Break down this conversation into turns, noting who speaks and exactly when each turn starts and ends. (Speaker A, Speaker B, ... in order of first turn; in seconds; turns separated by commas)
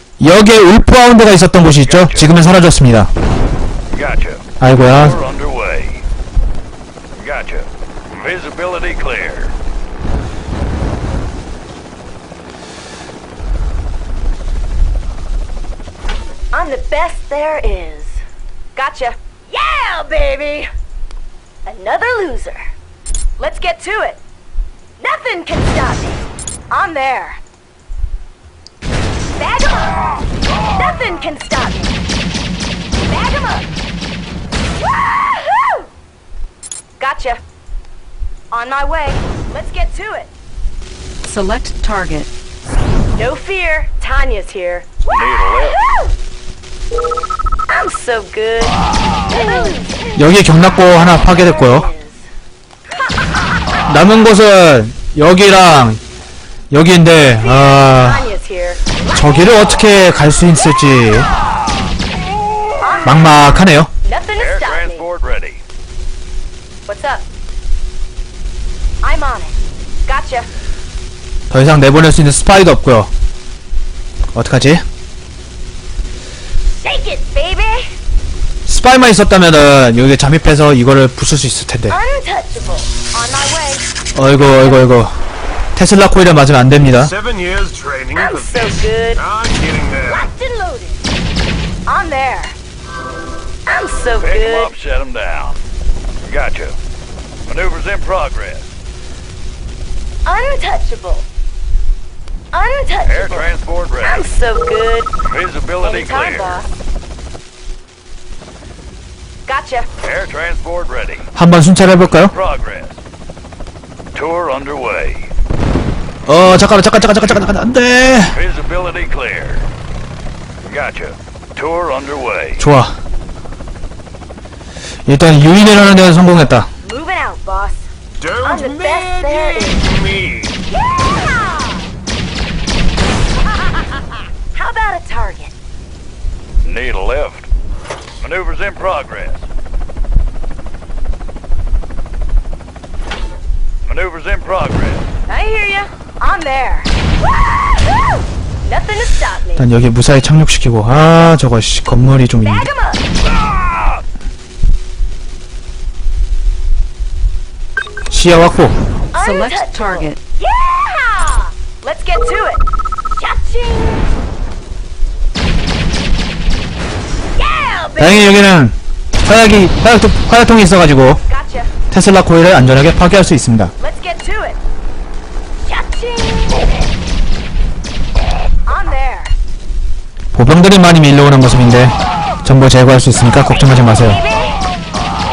Speaker A: 0.2-3.1, Speaker B: 1.9-2.2, Speaker B: 3.9-6.0, Speaker A: 4.6-5.2, Speaker B: 7.2-9.5, Speaker C: 16.5-18.2, Speaker C: 18.8-20.7, Speaker C: 21.6-22.7, Speaker C: 23.4-24.2, Speaker C: 25.0-27.4, Speaker C: 29.4-32.1, Speaker C: 33.0-33.7, Speaker C: 37.0-37.4, Speaker C: 38.5-40.3, Speaker D: 41.2-42.3, Speaker C: 43.1-45.1, Speaker B: 45.0-45.8, Speaker C: 47.7-50.1, Speaker A: 50.1-51.9, Speaker C: 51.6-52.2, Speaker A: 53.9-56.0, Speaker A: 56.7-58.3, Speaker C: 57.4-59.0, Speaker A: 59.1-61.3, Speaker C: 62.8-63.2, Speaker A: 63.0-63.9, Speaker C: 64.0-65.1, Speaker B: 64.4-65.6, Speaker C: 66.9-67.2, Speaker C: 69.0-69.5, Speaker C: 70.1-70.5, Speaker A: 71.5-73.1, Speaker A: 74.3-74.8, Speaker C: 76.8-77.9, Speaker A: 78.7-82.0, Speaker C: 81.9-83.8, Speaker A: 84.1-85.1, Speaker A: 85.8-87.1, Speaker E: 87.2-90.2, Speaker C: 88.2-89.2, Speaker C: 90.0-91.0, Speaker C: 91.9-92.5, Speaker C: 93.7-94.7, Speaker B: 94.2-95.6, Speaker B: 96.2-96.8, Speaker B: 97.5-98.7, Speaker C: 100.2-101.2, Speaker C: 102.5-103.5, Speaker B: 103.1-104.2, Speaker C: 104.0-105.1, Speaker B: 105.2-106.6, Speaker C: 105.8-106.7, Speaker C: 109.5-109.9, Speaker B: 110.0-111.2, Speaker A: 111.3-112.3, Speaker B: 112.3-113.0, Speaker B: 114.1-115.3, Speaker A: 116.3-118.4, Speaker B: 118.3-119.7, Speaker B: 120.7-122.6, Speaker A: 122.6-122.9, Speaker A: 125.1-126.7, Speaker C: 126.8-127.8, Speaker E: 128.2-130.6, Speaker C: 128.4-129.9, Speaker C: 130.7-131.8, Speaker C: 134.5-135.5, Speaker B: 136.6-137.5, Speaker B: 138.2-139.4, Speaker B: 143.8-145.1, Speaker C: 145.3-146.9, Speaker C: 148.6-149.6, Speaker A: 149.5-152.7, Speaker C: 152.4-153.0, Speaker A: 158.1-158.8, Speaker C: 159.1-164.1, Speaker D: 159.2-160.2, Speaker C: 167.3-168.2, Speaker A: 168.0-171.2, Speaker C: 171.3-171.7, Speaker A: 171.9-173.7, Speaker C: 173.8-174.6, Speaker C: 175.6-176.8, Speaker C: 178.7-179.3, Speaker A: 180.3-184.2, Speaker C: 184.0-184.6